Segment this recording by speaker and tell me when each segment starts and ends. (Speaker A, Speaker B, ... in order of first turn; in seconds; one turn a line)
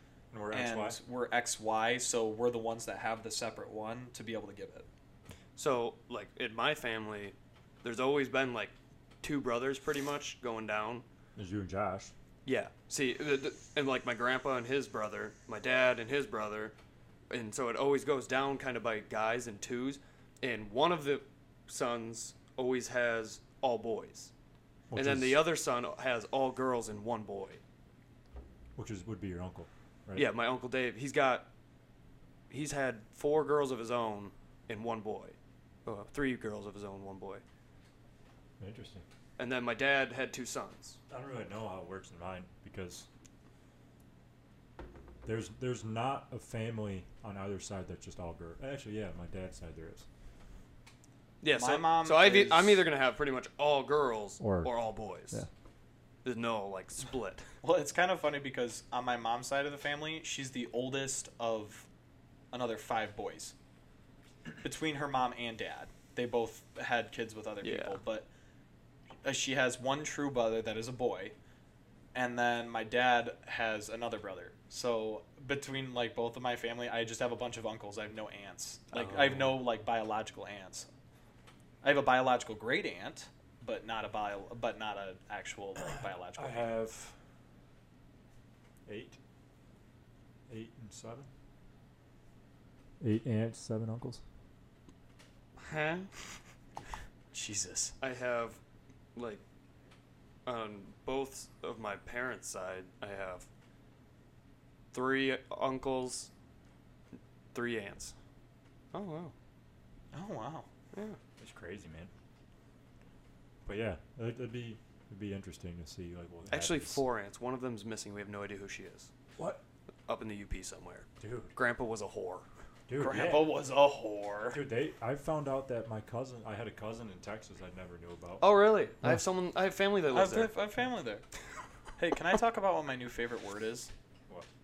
Speaker A: 0.3-1.0
Speaker B: 0.5-4.8
Speaker C: 5.5-11.0
Speaker A: 11.3-12.1
Speaker C: 12.4-16.7
Speaker C: 17.3-24.3
Speaker A: 24.9-25.4
Speaker C: 24.9-27.6
Speaker A: 28.8-30.3
Speaker C: 30.1-31.5
Speaker C: 32.5-37.4
Speaker A: 38.6-39.0
Speaker C: 39.4-41.0
Speaker A: 41.1-43.1
Speaker A: 45.2-50.0
Speaker C: 51.4-55.4
Speaker B: 51.5-52.9
Speaker A: 54.4-54.7
Speaker C: 56.2-57.4
Speaker B: 57.6-61.9
Speaker B: 62.5-63.5
Speaker B: 64.6-68.3
Speaker C: 67.6-68.0
Speaker B: 69.2-71.3
Speaker B: 72.1-80.9
Speaker C: 78.9-79.4
Speaker A: 79.1-79.4
Speaker B: 81.8-86.7
Speaker A: 86.4-87.1
Speaker A: 88.8-89.2
Speaker A: 90.5-91.3
Speaker A: 93.0-94.2
Speaker C: 95.6-96.1
Speaker B: 97.3-97.9
Speaker C: 98.0-98.6
Speaker C: 99.1-99.4
Speaker C: 100.5-103.5
Speaker C: 104.9-106.3
Speaker C: 107.5-108.1
Speaker C: 108.9-109.3
Speaker B: 110.1-110.7
Speaker C: 110.9-111.2
Speaker A: 111.4-112.1
Speaker A: 113.6-117.0
Speaker C: 116.5-119.1
Speaker C: 120.1-122.5
Speaker A: 121.2-121.5
Speaker A: 122.9-123.5
Speaker B: 123.0-124.6
Speaker A: 124.5-128.4
Speaker C: 128.4-130.5
Speaker B: 130.1-131.2
Speaker B: 132.0-133.9